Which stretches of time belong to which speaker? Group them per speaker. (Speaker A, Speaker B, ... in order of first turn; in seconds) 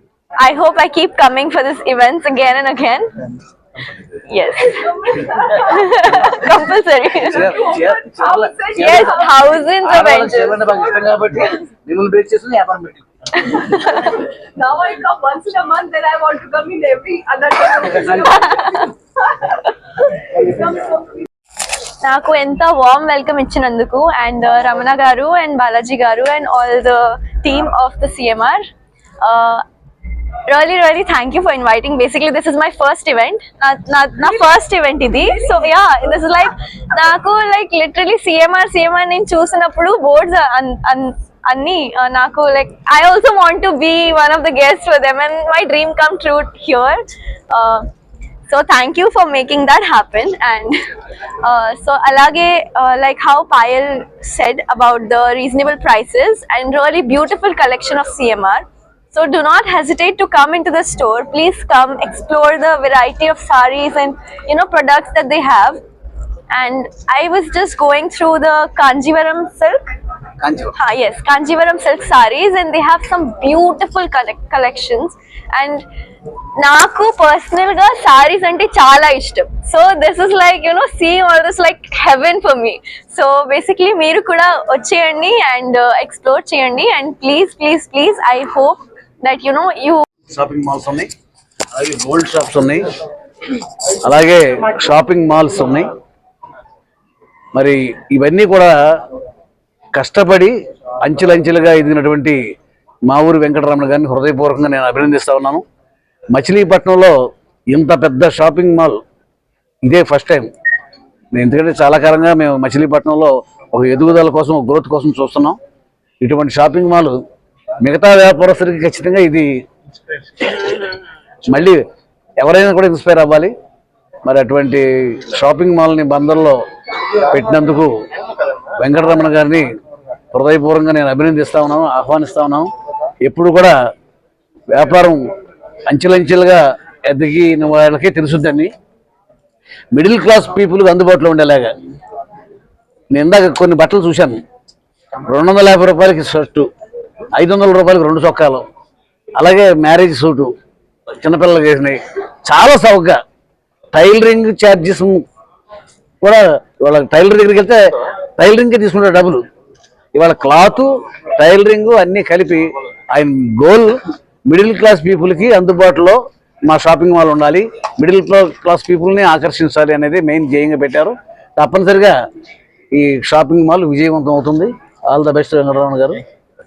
Speaker A: 0.4-3.3, 4.1-7.6, 8.8-10.6, 13.6-14.2, 18.1-18.9, 22.0-28.6, 29.2-29.6, 30.5-47.0, 47.5-47.9, 48.5-50.8, 51.4-65.8, 66.5-69.9, 70.7-75.8, 76.6-90.0
Speaker B: 5.1-5.6, 7.5-9.0, 14.5-18.6, 20.4-21.2
Speaker C: 7.2-9.2, 9.8-13.6, 70.4-70.8, 90.3-91.1, 91.8-92.9, 94.0-95.9, 97.5-98.8, 99.9-102.4, 103.1-105.6, 106.3-107.2, 107.7-109.0, 109.8-110.5, 111.3-115.6, 116.2-117.2, 117.8-119.5, 120.4-120.9, 121.5-121.8, 122.4-123.5, 124.2-126.6, 127.2-127.9, 128.8-129.7, 130.3-132.7, 133.2-133.8, 134.7-135.2, 135.9-138.7, 139.9-141.7, 143.1-144.4, 145.3-146.7, 147.3-148.7, 149.4-150.5, 151.2-153.2, 153.9-155.2, 156.2-157.8, 158.4-159.4, 160.2-172.2, 172.9-176.2